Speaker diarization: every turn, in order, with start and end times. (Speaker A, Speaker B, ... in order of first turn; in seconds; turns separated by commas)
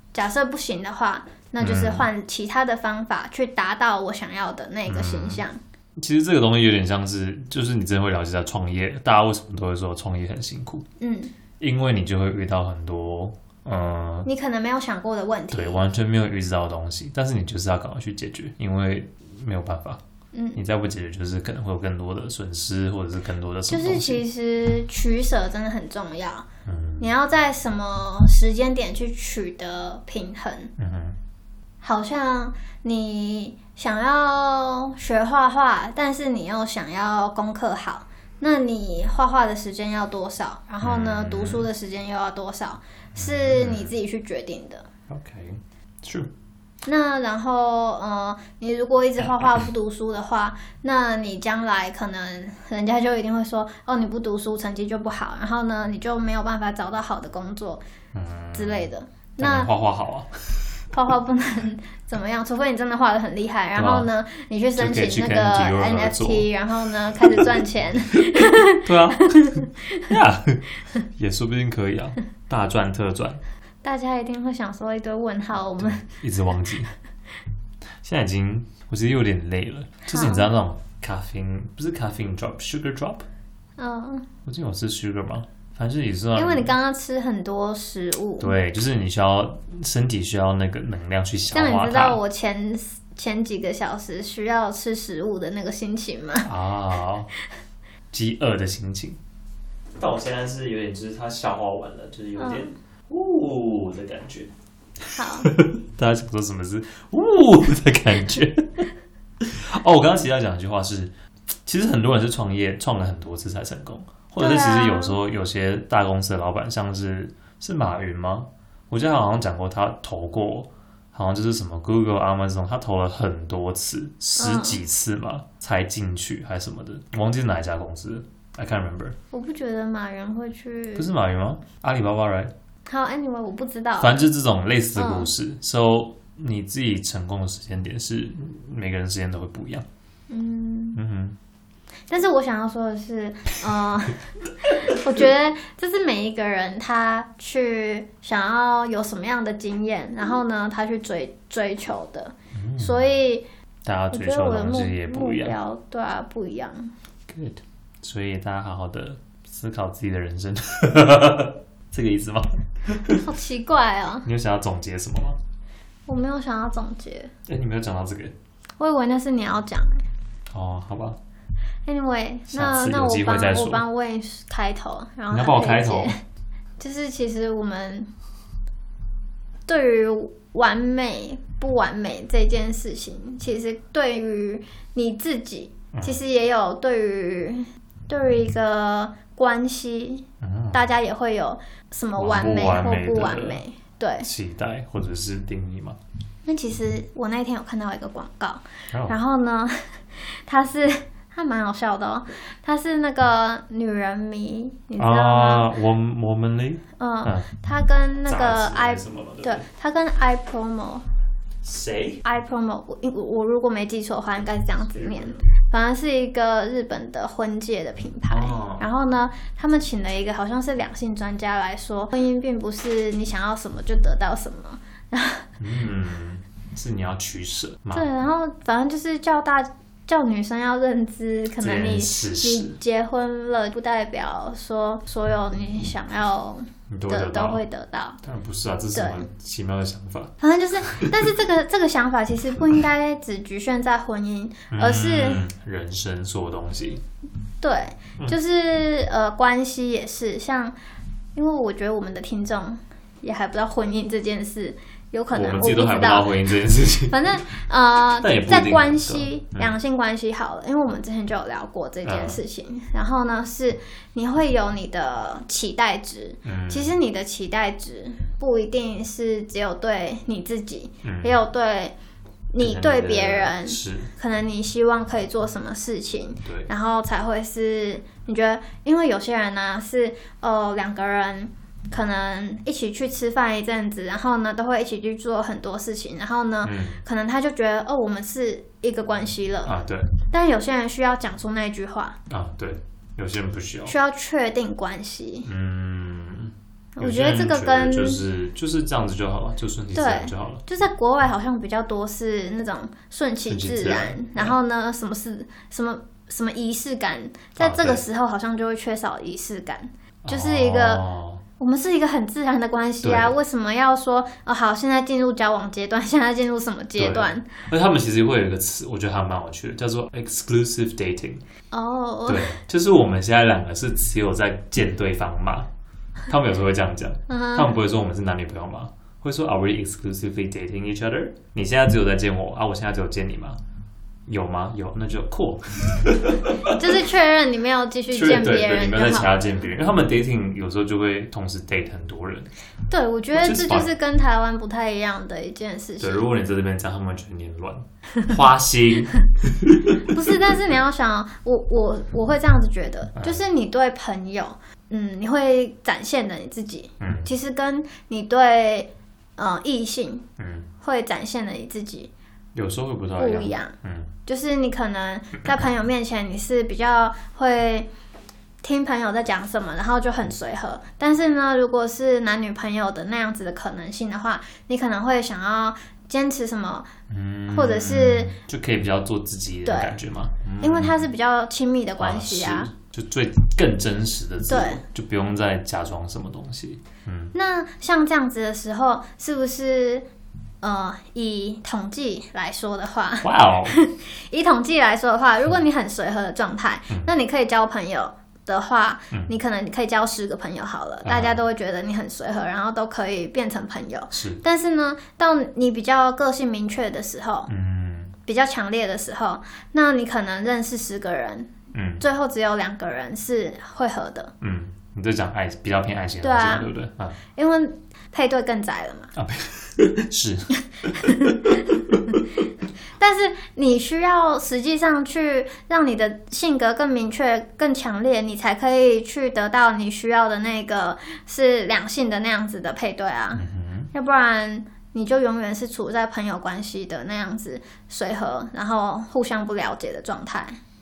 Speaker A: 0.1-5.6, Speaker B: 1.6-2.1, Speaker B: 4.9-5.4, Speaker B: 6.0-10.8, Speaker A: 11.0-11.3, Speaker B: 11.6-14.3, Speaker A: 14.2-15.8, Speaker B: 15.5-20.0, Speaker A: 20.3-20.6, Speaker B: 20.5-24.2, Speaker A: 23.7-26.5, Speaker B: 26.6-27.1, Speaker A: 27.0-30.7, Speaker B: 30.8-31.2, Speaker A: 31.8-44.9, Speaker B: 40.8-41.7, Speaker B: 43.1-43.9, Speaker B: 45.1-46.3, Speaker A: 46.9-57.8, Speaker B: 49.2-49.6, Speaker B: 58.1-60.7, Speaker A: 58.5-59.7, Speaker A: 60.9-70.1, Speaker B: 63.7-64.1, Speaker B: 64.8-66.5, Speaker B: 67.1-67.5, Speaker B: 68.8-73.4, Speaker A: 73.8-76.1, Speaker B: 75.8-76.9, Speaker B: 78.0-83.2, Speaker A: 80.1-80.5, Speaker A: 83.8-84.3, Speaker B: 84.4-86.7, Speaker A: 86.3-88.5, Speaker B: 88.4-92.2, Speaker A: 91.5-96.5, Speaker B: 96.4-97.3, Speaker B: 98.1-99.2, Speaker B: 100.0-104.5, Speaker A: 102.4-102.7, Speaker B: 105.1-108.9, Speaker A: 105.1-105.5, Speaker B: 109.4-111.1, Speaker B: 111.7-129.2, Speaker A: 114.4-115.2, Speaker A: 124.4-124.8, Speaker A: 129.3-131.1, Speaker B: 130.9-132.5, Speaker A: 132.8-134.2, Speaker B: 134.0-139.8, Speaker A: 134.9-135.3, Speaker A: 140.3-141.0, Speaker B: 140.9-141.4, Speaker A: 142.1-153.4, Speaker B: 152.5-153.1, Speaker B: 153.8-155.6, Speaker A: 154.1-156.9, Speaker B: 157.3-163.2, Speaker A: 163.2-164.3, Speaker B: 164.2-165.4, Speaker A: 166.1-167.3, Speaker B: 167.5-168.3, Speaker A: 168.8-170.1, Speaker B: 170.5-171.2, Speaker A: 171.8-176.2, Speaker B: 172.5-173.8, Speaker B: 175.3-176.1, Speaker A: 176.8-178.1, Speaker A: 179.7-194.3, Speaker B: 185.9-186.2, Speaker B: 190.4-190.9, Speaker B: 192.2-193.6, Speaker B: 194.2-196.0, Speaker A: 196.4-205.7, Speaker B: 198.9-199.2, Speaker B: 205.0-207.4, Speaker A: 207.0-211.1, Speaker B: 208.2-209.7, Speaker B: 211.6-212.2, Speaker A: 212.2-225.5, Speaker B: 214.8-215.4, Speaker B: 218.3-218.8, Speaker B: 225.6-228.1, Speaker A: 227.9-238.2, Speaker B: 231.6-232.8, Speaker B: 236.9-237.6, Speaker B: 238.2-240.3, Speaker A: 238.9-239.3, Speaker A: 240.4-245.4, Speaker B: 240.9-241.2, Speaker B: 244.7-247.0, Speaker A: 247.6-250.7, Speaker A: 251.3-271.9, Speaker B: 255.3-257.4, Speaker B: 258.2-259.8, Speaker B: 262.0-262.4, Speaker B: 266.4-267.0, Speaker B: 271.0-271.4, Speaker A: 272.5-289.7, Speaker B: 272.6-274.1, Speaker B: 276.4-276.7, Speaker B: 286.6-287.0, Speaker B: 289.6-290.1, Speaker A: 290.3-292.2, Speaker B: 292.3-293.9, Speaker A: 293.9-295.5, Speaker B: 295.4-300.6, Speaker A: 296.9-298.2, Speaker A: 299.9-311.0, Speaker B: 303.5-304.6, Speaker B: 307.6-308.0, Speaker B: 310.2-311.4, Speaker A: 311.6-317.5, Speaker B: 313.0-313.4, Speaker B: 317.0-321.4, Speaker A: 321.7-322.6, Speaker B: 322.3-325.7, Speaker B: 326.3-333.6, Speaker A: 327.3-327.8, Speaker B: 334.3-336.9, Speaker A: 336.6-339.3, Speaker B: 338.1-342.5, Speaker A: 342.9-346.3, Speaker B: 343.3-343.9, Speaker B: 346.0-350.6, Speaker A: 350.1-360.2, Speaker B: 353.1-353.4, Speaker B: 357.0-357.3, Speaker B: 360.4-360.7, Speaker A: 360.8-362.1, Speaker B: 362.5-364.1, Speaker A: 363.2-363.7, Speaker A: 364.2-367.9, Speaker A: 368.6-376.9, Speaker B: 377.1-381.1, Speaker A: 377.5-378.3, Speaker A: 379.6-379.9, Speaker A: 380.6-382.7, Speaker B: 382.0-387.3, Speaker A: 384.5-384.8, Speaker A: 387.3-390.1, Speaker A: 390.6-407.5, Speaker B: 393.2-393.7, Speaker B: 401.0-401.4, Speaker B: 404.1-404.4, Speaker B: 407.5-408.1, Speaker A: 408.2-414.3, Speaker B: 411.7-412.0, Speaker B: 414.4-417.2, Speaker A: 416.2-416.7, Speaker A: 417.3-419.1, Speaker B: 419.1-422.2, Speaker A: 421.0-421.4, Speaker A: 423.0-440.6, Speaker B: 433.3-433.9